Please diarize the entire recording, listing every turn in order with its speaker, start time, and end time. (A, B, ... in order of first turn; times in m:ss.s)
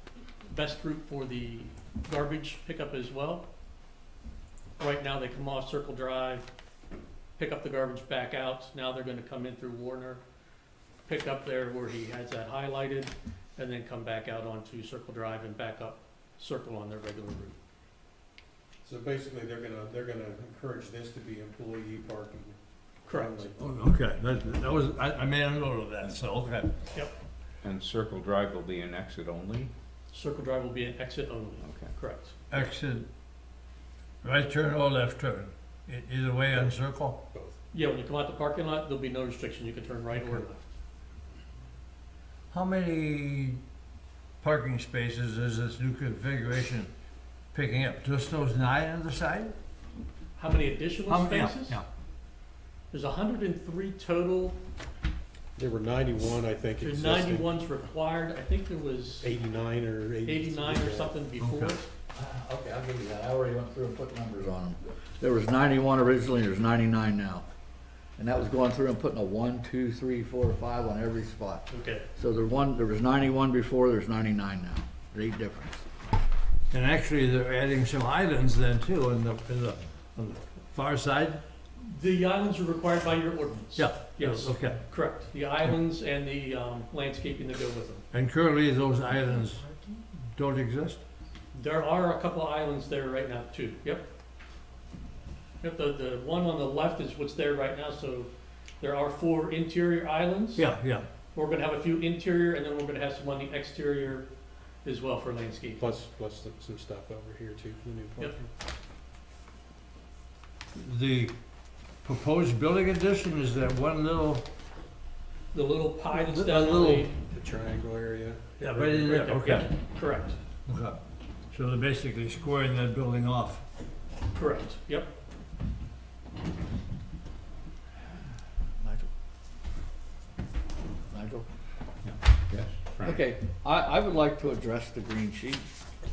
0:00.4-0:03.5 A
0:04.8-0:06.5 A
0:07.4-0:10.2 A
0:11.1-0:17.6 A
0:18.8-0:22.6 B
0:23.1-0:23.4 A
0:23.1-0:23.6 B
0:23.6-0:26.8 C
0:27.6-0:29.7 D
0:30.1-0:32.4 A
0:31.6-0:31.9 D
0:32.5-0:33.1 C
0:34.2-0:37.2 C
0:37.7-0:40.6 A
0:42.5-0:43.6 C
0:44.4-0:46.9 C
0:47.5-0:49.6 C
0:50.4-0:51.8 A
0:51.1-0:51.9 C
0:52.9-0:54.6 A
0:55.6-0:57.5 B
0:56.8-0:59.3 A
0:59.2-1:01.2 B
1:00.2-1:01.9 A
1:01.4-1:01.8 C
1:02.2-1:07.4 E
1:08.2-1:15.9 E
1:11.7-1:12.1 A
1:16.7-1:21.4 C
1:21.8-1:28.0 A
1:23.8-1:24.8 C
1:28.1-1:29.8 C
1:30.4-1:31.0 C
1:31.5-1:34.1 A
1:35.6-1:40.6 A
1:40.6-1:41.1 C
1:41.3-1:44.3 A
1:44.8-1:45.8 A
1:45.8-1:48.5 B
1:50.7-1:51.4 C
1:52.0-1:54.5 C
1:55.5-1:57.1 A
1:56.1-1:57.1 C
1:57.3-1:58.4 B
1:58.6-1:59.7 C
1:58.6-2:00.4 A
2:00.7-2:01.0 C
2:01.5-2:03.6 C
2:04.3-2:05.1 A
2:08.8-2:09.1 E
2:11.1-2:11.5 E
2:12.0-2:13.2 D
2:13.0-2:15.7 E